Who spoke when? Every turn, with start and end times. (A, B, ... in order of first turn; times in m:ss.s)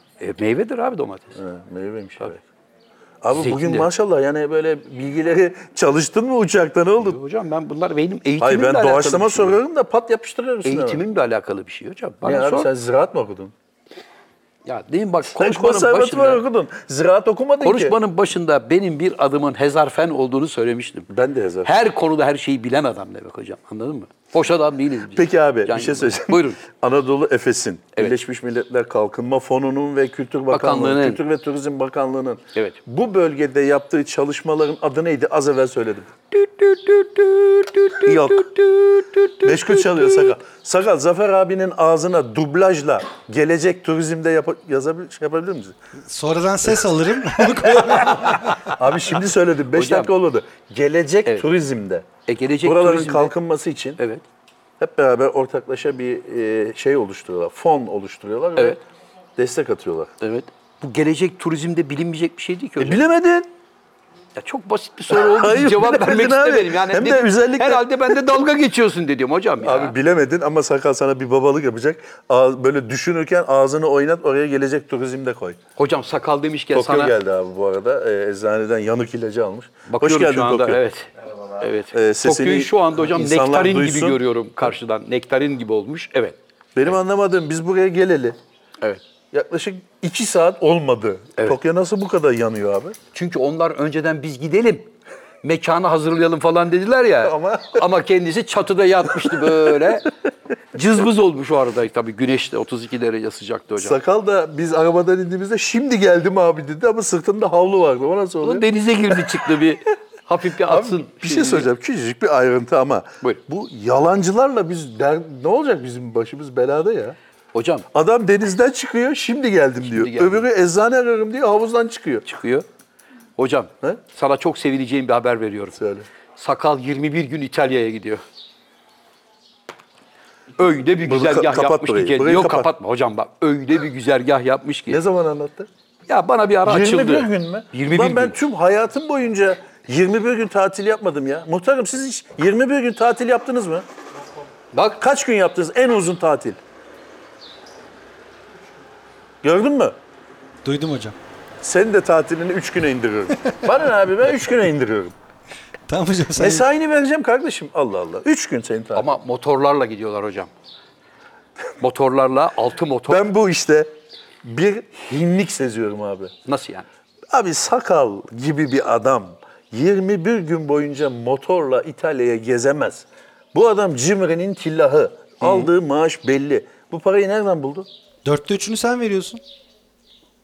0:00.2-0:01.4 A
0:01.4-0:02.4 B
0:03.2-0:07.2 B
0:03.3-0:03.9 A
0:07.0-0:09.6 A
0:08.4-0:11.0 B
0:10.6-0:12.7 A
0:12.2-0:13.5 B
0:14.6-0:16.4 A
0:15.3-0:18.0 B
0:17.6-0:21.1 A
0:21.1-0:21.7 B
0:21.6-0:26.6 A
0:25.1-0:36.1 B
0:30.5-0:31.2 A
0:36.3-0:40.4 A
0:38.0-0:38.5 B
0:39.4-0:45.8 B
0:46.1-0:48.7 C
0:47.4-0:52.1 B
0:49.7-0:50.1 A
0:52.3-0:53.3 A
0:52.6-0:54.0 B
0:54.0-0:54.2 A
0:54.8-0:58.8 B
0:59.4-1:00.1 B
1:00.2-1:03.0 A
1:02.8-1:03.5 B
1:04.4-1:10.0 A
1:05.1-1:08.2 B
1:09.6-1:15.6 B
1:15.8-1:17.2 A
1:16.7-1:20.8 B
1:19.9-1:26.4 A
1:21.9-1:24.2 B
1:26.8-1:28.4 B
1:29.3-1:33.0 B
1:33.1-1:34.9 A
1:35.4-1:40.1 A
1:37.2-1:37.8 B
1:40.7-1:44.0 A
1:43.8-1:48.7 B
1:48.4-1:51.7 A
1:50.6-1:57.2 B
1:57.5-1:57.9 A
1:57.9-2:02.2 B
1:59.8-2:00.5 A
2:02.2-2:02.6 A
2:03.4-2:05.8 A
2:05.8-2:06.1 B
2:06.4-2:08.2 A
2:10.6-2:15.0 A
2:11.0-2:12.7 B
2:14.9-2:15.7 B
2:16.1-2:18.4 A
2:16.6-2:23.9 B
2:24.7-2:25.0 A
2:25.0-2:26.6 B
2:29.4-2:30.0 B
2:30.6-2:31.2 C
2:31.6-2:35.2 B
2:35.9-2:36.6 C
2:36.4-2:39.1 B
2:39.0-2:40.5 A
2:41.8-2:43.3 A
2:43.1-2:43.9 B
2:44.4-2:46.3 B
2:46.5-2:46.9 A
2:47.3-2:57.9 B
2:55.4-2:55.7 A
2:58.2-2:59.4 C